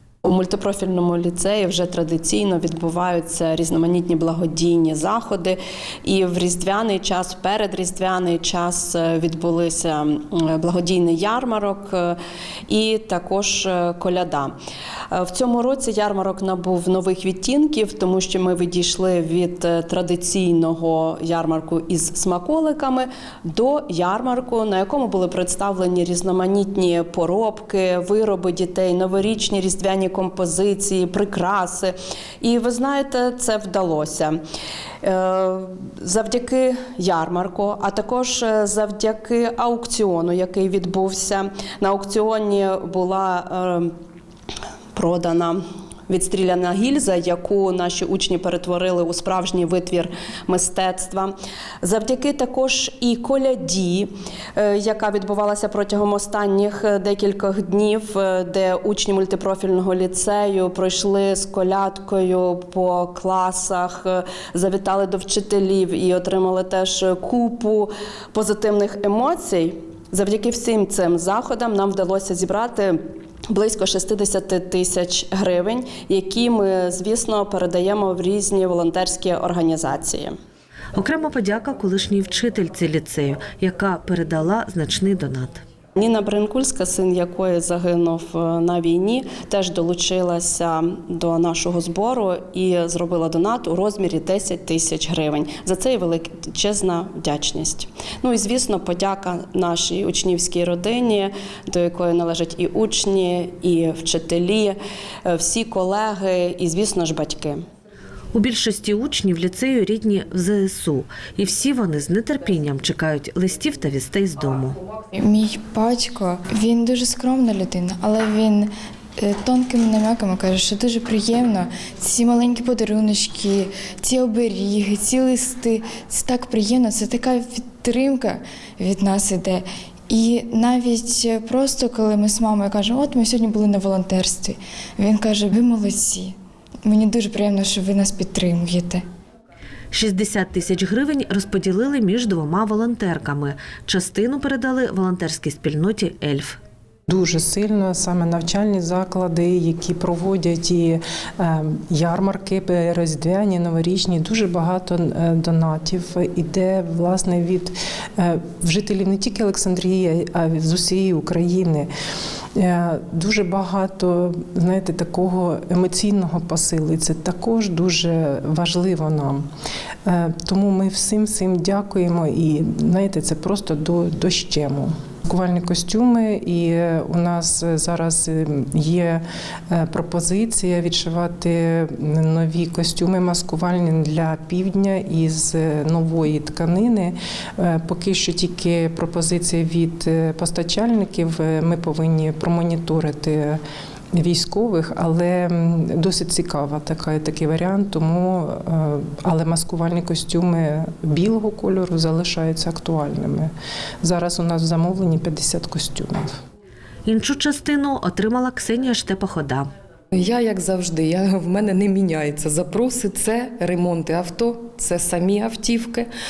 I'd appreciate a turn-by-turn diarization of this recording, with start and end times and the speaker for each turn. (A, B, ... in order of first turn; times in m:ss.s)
0:00.2-0:14.5 A
0:15.1-0:34.4 A
0:35.0-0:43.9 A
0:44.9-1:13.0 A
1:13.5-1:20.3 A
1:21.0-1:25.6 B
1:26.0-1:47.6 A
1:48.3-1:54.8 B
1:55.1-2:19.0 C
2:19.9-2:26.6 B
2:27.1-2:41.9 D
2:42.6-2:49.4 D
2:50.0-3:13.6 D
3:14.1-3:23.5 D
3:24.0-3:26.4 D
3:27.0-3:29.7 B
3:30.1-3:36.1 E